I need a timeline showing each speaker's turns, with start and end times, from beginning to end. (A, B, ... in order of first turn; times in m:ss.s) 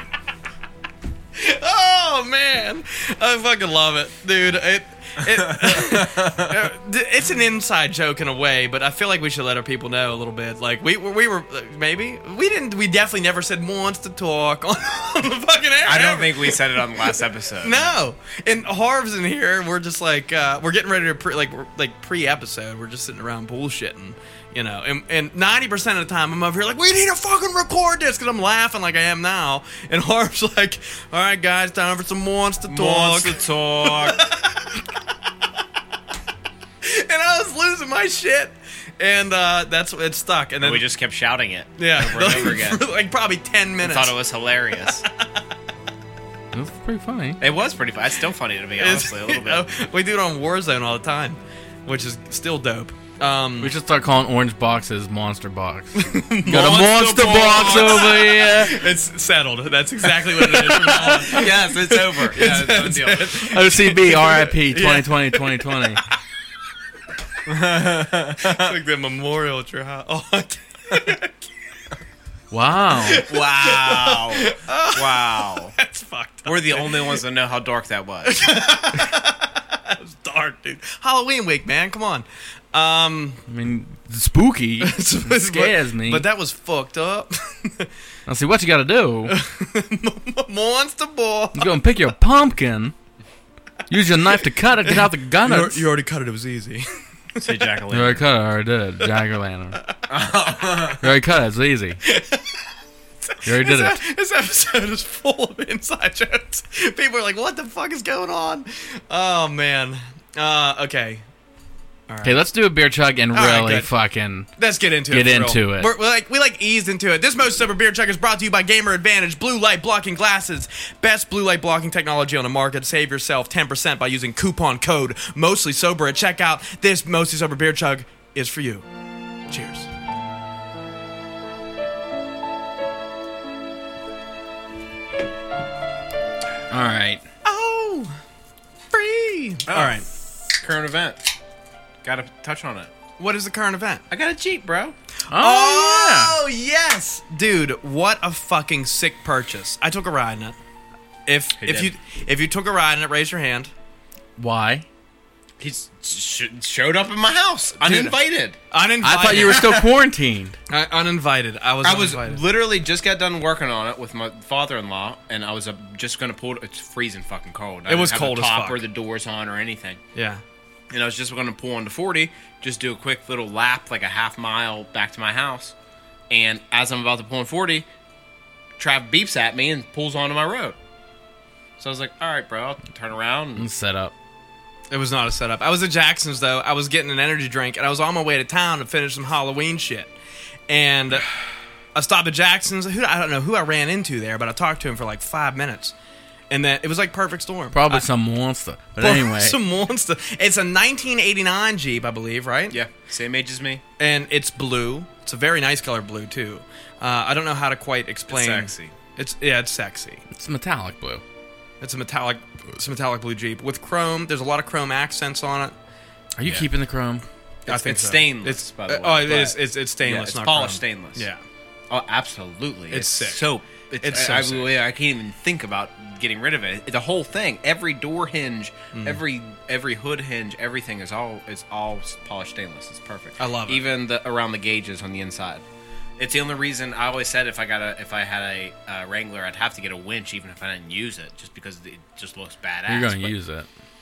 0:01.3-0:34.8 A
0:05.4-0:06.6 B
0:15.8-0:17.9 B
0:32.6-0:34.2 B
0:36.8-0:40.8 A
0:40.6-0:42.8 B
0:41.8-0:44.2 A
0:43.8-0:45.0 B
0:44.9-0:45.4 A
0:46.5-0:47.4 C
0:47.4-0:49.6 B
0:48.8-0:53.7 A
0:53.6-0:58.8 C
0:55.9-0:56.8 A
0:56.5-0:58.2 B
0:57.7-1:05.8 A
1:00.7-1:01.0 C
1:00.8-1:03.5 B
1:03.4-1:06.0 C
1:07.4-1:08.7 B
1:08.4-1:11.4 A
1:12.5-1:13.2 C
1:12.9-1:17.2 A
1:13.2-1:15.7 B
1:16.4-1:18.5 B
1:18.2-1:23.4 A
1:23.5-1:26.3 C
1:24.8-1:27.9 A
1:28.3-1:29.3 C
1:29.3-1:31.7 A
1:31.5-1:32.9 C
1:33.9-1:35.8 C
1:34.8-1:37.7 A
1:37.4-1:38.2 B
1:37.9-1:39.8 C
1:40.1-1:41.0 B
1:41.0-1:42.0 C
1:42.0-1:42.6 A
1:43.2-1:51.2 A
1:43.4-1:44.0 C
1:52.1-1:52.4 A
1:52.2-1:54.5 C
1:53.3-1:53.9 A
1:54.6-2:08.9 A
1:55.1-1:55.9 C
2:09.5-2:09.9 A
2:16.7-2:17.2 C
2:17.4-2:18.2 A
2:18.9-2:20.1 A
2:19.7-2:20.0 B
2:20.6-2:21.3 B
2:22.0-2:22.9 B
2:23.2-2:24.0 A
2:24.1-2:25.0 B
2:25.3-2:30.6 A
2:25.3-2:26.4 C
2:31.2-2:33.7 A
2:31.6-2:31.9 B
2:34.4-2:34.8 C
2:35.6-2:38.6 B
2:37.8-2:38.2 A
2:38.7-2:39.9 A
2:39.0-2:40.6 C
2:40.7-2:42.4 A
2:41.8-2:50.0 B
2:47.9-2:48.8 A
2:50.1-2:50.4 A
2:50.9-2:55.7 B
2:56.3-2:57.8 B
2:58.8-3:00.8 B
3:01.8-3:03.7 B
3:03.6-3:04.1 C
3:04.9-3:10.1 A
3:10.7-3:11.3 A
3:11.9-3:15.9 A
3:16.5-3:18.1 A
3:17.7-3:19.6 C
3:19.0-3:22.8 A
3:22.7-3:23.8 B
3:24.0-3:30.2 A
3:28.3-3:28.9 B
3:30.3-3:31.2 C
3:31.8-3:35.7 A
3:36.4-3:37.2 C
3:36.4-3:36.7 B
3:37.7-3:41.3 B
3:37.7-3:41.4 A
3:41.9-3:55.6 B
3:42.9-3:44.7 A
3:48.9-3:49.2 A
3:53.4-3:53.8 A
3:56.2-4:03.3 B
4:02.9-4:03.7 C